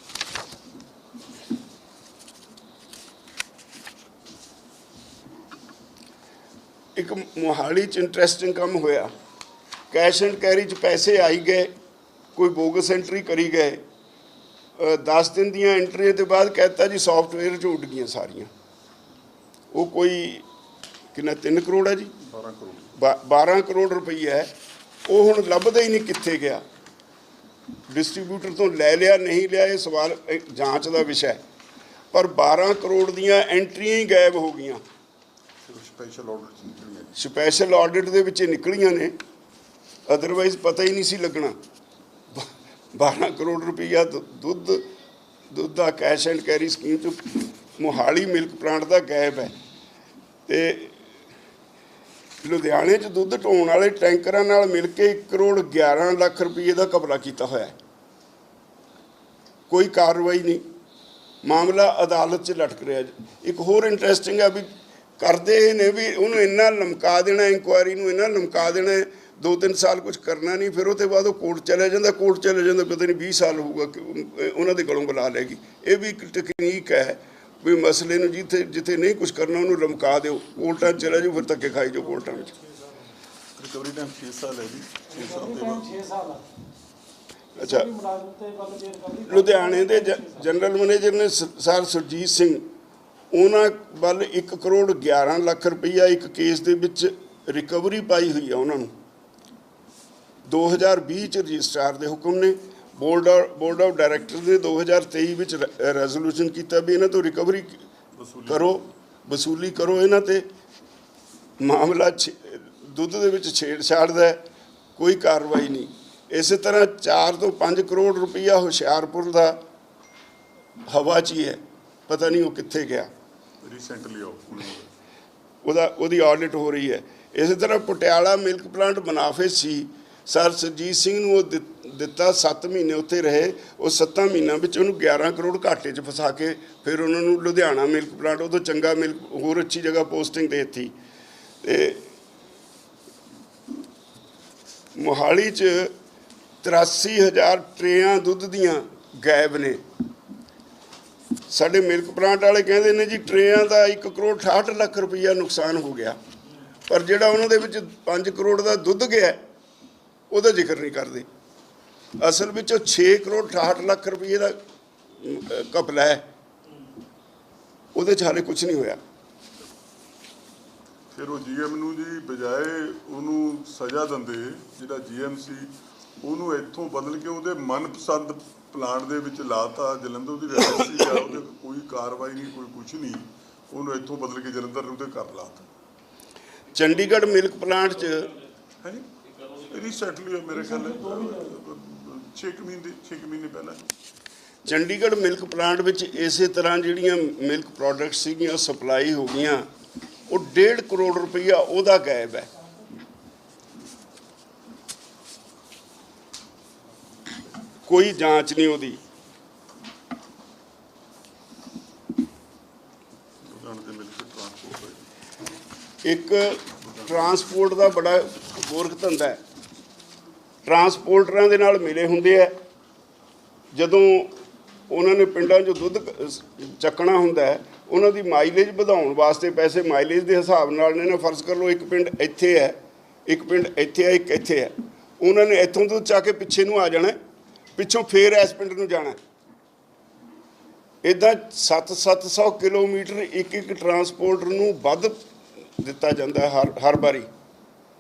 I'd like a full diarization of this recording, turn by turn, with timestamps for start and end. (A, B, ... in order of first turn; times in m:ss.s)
0:07.0-0:09.1 A
0:09.9-0:11.7 A
0:12.4-0:13.8 A
0:14.8-0:18.5 A
0:19.7-0:20.4 A
0:21.1-0:22.1 A
0:22.2-0:22.9 B
0:23.0-0:24.5 A
0:25.1-0:26.6 A
0:27.9-0:31.4 A
0:32.1-0:34.8 A
0:35.6-0:37.2 B
0:37.2-0:39.2 A
0:40.1-0:41.6 A
0:42.3-0:44.8 A
0:45.5-0:49.5 A
0:50.5-0:51.0 A
0:52.4-0:57.7 A
0:59.7-1:00.6 A
1:01.4-1:04.7 A
1:05.2-1:22.5 A
1:23.6-1:26.0 B
1:25.8-1:26.4 C
1:27.6-1:27.9 A
1:27.8-1:30.3 C
1:29.3-1:32.6 A
1:33.3-1:38.9 A
1:40.5-1:47.8 A
1:48.2-1:48.8 B
1:48.5-1:50.5 A
1:51.6-1:54.4 A
1:55.0-1:59.6 A
2:00.9-2:03.1 A
2:03.6-2:04.9 B
2:05.6-2:20.9 A
2:21.6-2:22.1 A
2:25.0-2:25.9 A
2:26.6-2:29.8 A
2:31.5-2:36.2 A
2:36.9-2:39.4 A
2:40.3-2:41.3 A
2:42.2-2:44.6 A
2:45.2-2:46.2 A
2:48.0-2:49.0 A
2:51.1-3:05.7 B
3:06.7-3:08.4 A
3:08.8-3:13.9 B
3:14.7-3:19.6 A
3:20.3-3:22.5 A
3:27.9-3:29.0 A
3:33.4-3:35.0 B
3:36.0-3:39.4 A
3:36.8-3:37.4 B
3:40.7-3:42.5 A
3:43.7-3:44.3 A
3:44.9-3:57.2 A
3:57.8-3:59.2 A
4:01.0-4:05.2 A
4:05.8-4:07.3 A